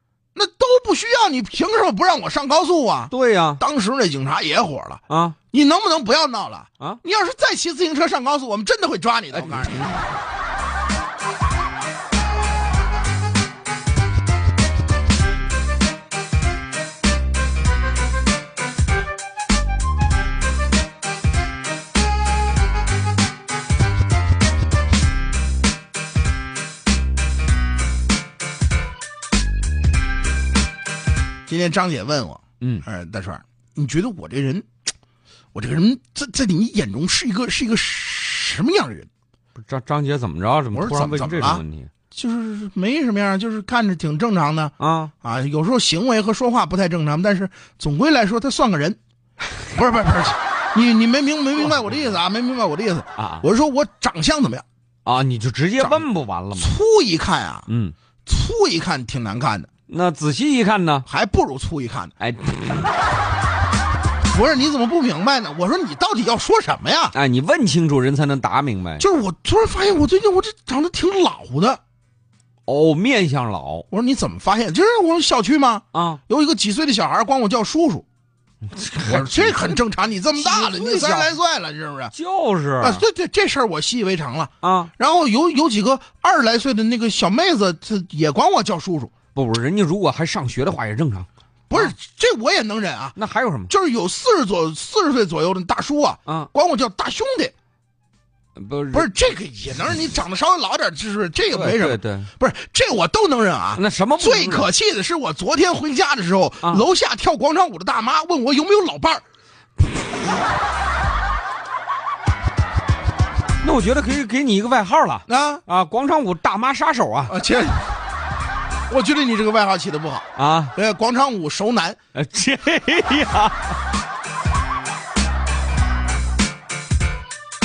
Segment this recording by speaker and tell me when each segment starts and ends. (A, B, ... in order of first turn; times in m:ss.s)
0:00.3-0:09.9 A
0:03.1-0:03.6 B
0:05.1-0:05.4 B
0:09.3-0:10.1 B
0:31.5-0:34.6 A
0:35.5-0:39.1 A
0:39.6-0:41.9 B
0:40.7-0:49.0 A
0:44.8-0:45.1 B
0:49.7-0:54.6 A
0:53.2-0:53.4 B
0:55.0-0:56.7 B
0:55.8-0:57.7 A
0:57.7-0:57.9 B
0:58.2-0:59.7 A
0:59.9-1:01.0 B
1:01.0-1:02.1 A
1:02.2-1:02.9 B
1:04.3-1:07.1 A
1:07.1-1:09.0 B
1:09.0-1:11.8 A
1:12.7-1:13.8 B
1:13.9-1:18.0 A
1:15.9-1:16.2 B
1:18.7-1:19.8 B
1:19.0-1:22.1 A
1:20.4-1:21.3 B
1:22.1-1:23.0 B
1:22.8-1:29.1 A
1:24.6-1:24.9 B
1:29.3-1:31.9 B
1:31.7-1:33.2 A
1:33.2-1:33.7 B
1:33.7-1:37.5 A
1:38.6-1:39.1 B
1:38.9-1:49.2 A
1:41.5-1:42.3 B
1:43.7-1:44.7 B
1:53.6-1:57.4 B
1:55.3-1:55.6 A
1:57.3-1:57.9 A
1:58.9-2:02.0 A
2:00.4-2:00.7 B
2:02.1-2:03.8 B